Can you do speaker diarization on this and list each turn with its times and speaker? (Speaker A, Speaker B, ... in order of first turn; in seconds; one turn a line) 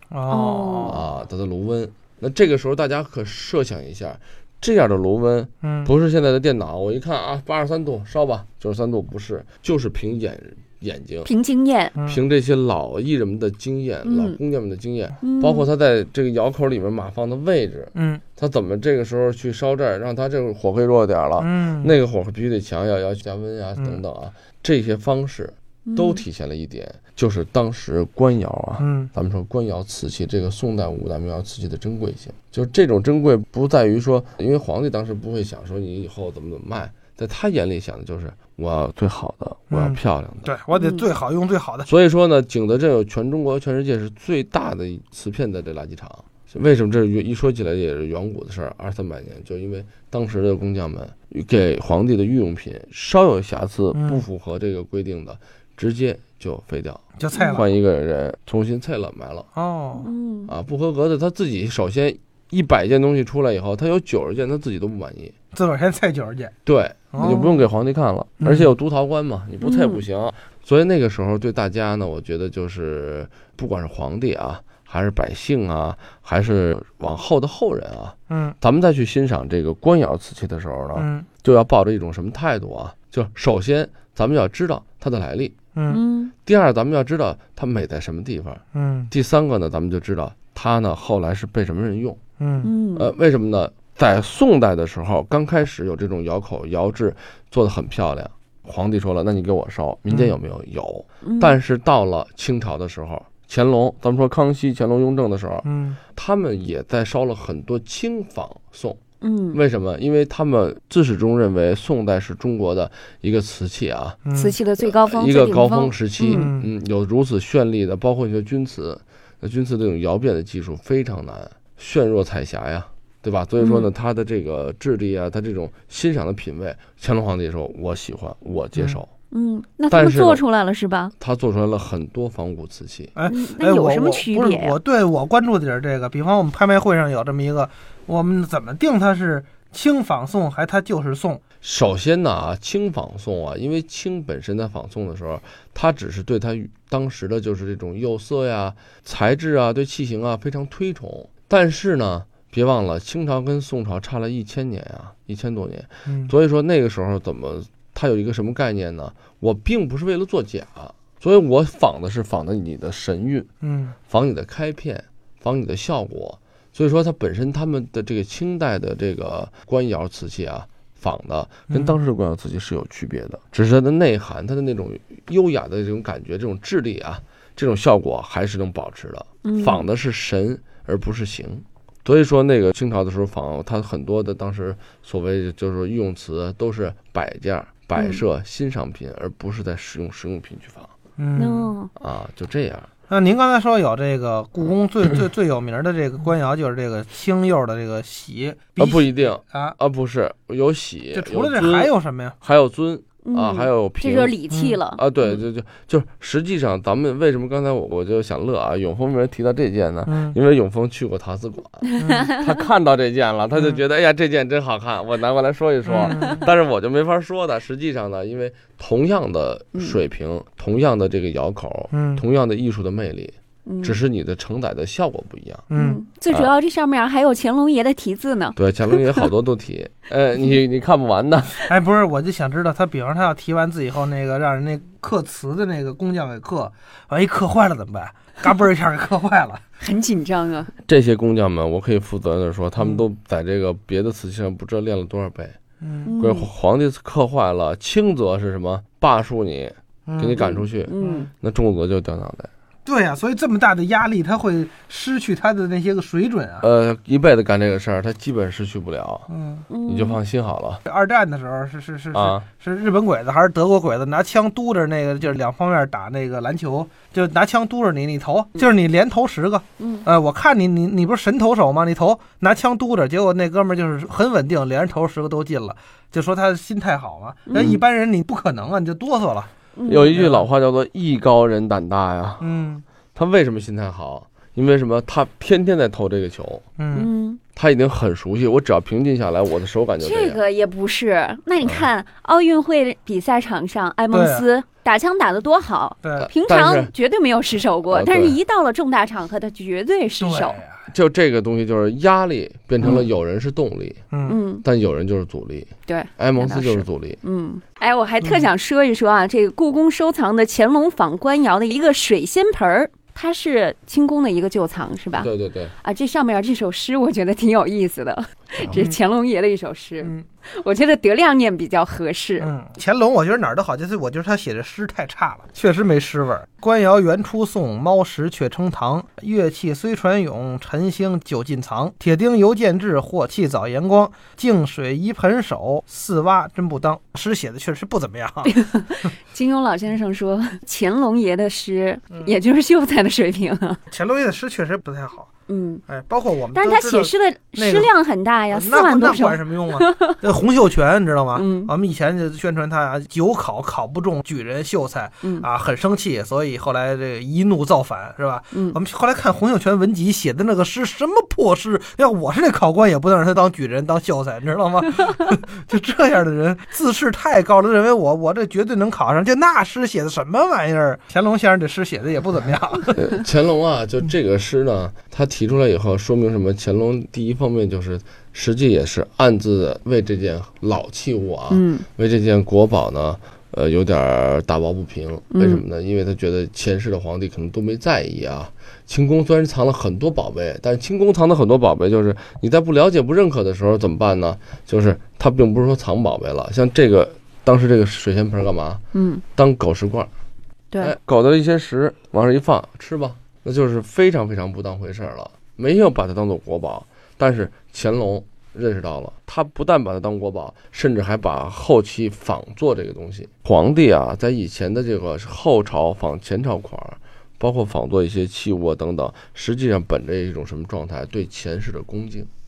Speaker A: 0.1-0.9
Speaker B: 0.3-1.0
Speaker C: 0.8-11.3
Speaker A: 5.6-5.9
Speaker B: 11.2-11.9
Speaker C: 12.0-40.5
Speaker B: 14.0-14.4
Speaker B: 15.2-15.7
Speaker A: 17.9-18.2
Speaker A: 21.4-21.9
Speaker B: 25.9-26.2
Speaker A: 28.8-29.1
Speaker A: 39.7-41.9
Speaker B: 40.7-41.0
Speaker C: 41.8-59.5
Speaker A: 53.9-54.2
Speaker A: 57.2-57.6
Speaker B: 57.3-57.6
Speaker A: 59.5-60.1
Speaker B: 60.0-60.5
Speaker C: 60.5-65.3
Speaker A: 65.5-66.5
Speaker C: 66.6-85.5
Speaker A: 67.1-67.4
Speaker B: 67.2-67.5
Speaker A: 68.4-68.7
Speaker B: 69.6-70.0
Speaker A: 78.3-78.5
Speaker A: 81.0-81.2
Speaker B: 85.9-86.3
Speaker C: 86.4-92.2
Speaker A: 88.7-89.1
Speaker A: 92.4-92.7
Speaker B: 92.6-93.1
Speaker C: 93.0-109.0
Speaker B: 101.2-101.6
Speaker A: 105.6-106.0
Speaker B: 109.2-109.6
Speaker C: 109.5-114.2
Speaker B: 114.3-116.5
Speaker C: 114.8-129.1
Speaker A: 116.4-116.7
Speaker B: 123.6-123.9
Speaker B: 129.3-131.1
Speaker C: 129.9-130.4
Speaker C: 131.2-133.1
Speaker A: 133.1-141.4
Speaker B: 133.2-134.8
Speaker C: 141.6-163.5
Speaker A: 156.1-156.3
Speaker A: 163.6-163.9
Speaker C: 164.1-190.9
Speaker B: 179.4-179.8
Speaker B: 187.9-188.2
Speaker A: 191.2-191.7
Speaker B: 191.3-191.9
Speaker C: 191.9-192.9
Speaker A: 193.1-199.7
Speaker C: 198.8-204.4
Speaker A: 201.1-202.3
Speaker B: 203.2-205.0
Speaker C: 204.9-225.7
Speaker A: 210.1-210.3
Speaker B: 212.0-212.4
Speaker A: 215.9-216.3
Speaker A: 221.9-222.2
Speaker B: 223.7-224.0
Speaker A: 225.7-226.0
Speaker B: 225.7-229.0
Speaker C: 228.6-231.6
Speaker A: 231.7-239.6
Speaker B: 239.8-240.7
Speaker C: 240.8-245.6
Speaker A: 245.8-246.1
Speaker B: 246.1-246.5
Speaker C: 246.2-252.5
Speaker B: 250.4-251.3
Speaker A: 252.8-256.6
Speaker C: 256.6-259.3
Speaker A: 259.3-259.6
Speaker B: 259.7-260.2
Speaker C: 259.8-260.8
Speaker A: 260.9-279.5
Speaker C: 262.1-262.5
Speaker B: 269.8-270.1
Speaker B: 277.5-277.8
Speaker C: 277.5-277.8
Speaker B: 279.8-280.1
Speaker C: 279.9-282.6
Speaker A: 280.1-280.4
Speaker A: 282.4-282.8
Speaker C: 283.1-286.6
Speaker A: 286.8-287.1
Speaker B: 286.9-287.4
Speaker C: 287.5-290.4
Speaker B: 290.0-300.6
Speaker C: 291.6-291.9
Speaker A: 294.1-294.5
Speaker C: 296.2-296.9
Speaker C: 297.9-298.4
Speaker A: 300.2-300.8
Speaker C: 300.9-304.0
Speaker A: 304.1-304.4
Speaker B: 304.2-304.6
Speaker C: 304.6-307.2
Speaker B: 305.9-315.3
Speaker C: 315.1-315.7
Speaker B: 315.8-322.5
Speaker A: 322.4-338.6
Speaker B: 338.4-343.8
Speaker A: 343.9-345.3
Speaker B: 345.5-345.8
Speaker A: 345.9-347.9
Speaker B: 346.5-350.1
Speaker A: 348.5-372.9
Speaker B: 351.3-351.7
Speaker B: 358.5-358.8
Speaker C: 372.9-398.8
Speaker B: 381.5-381.9
Speaker B: 385.3-385.6
Speaker B: 398.9-399.2
Speaker C: 399.3-400.1
Speaker C: 400.8-422.3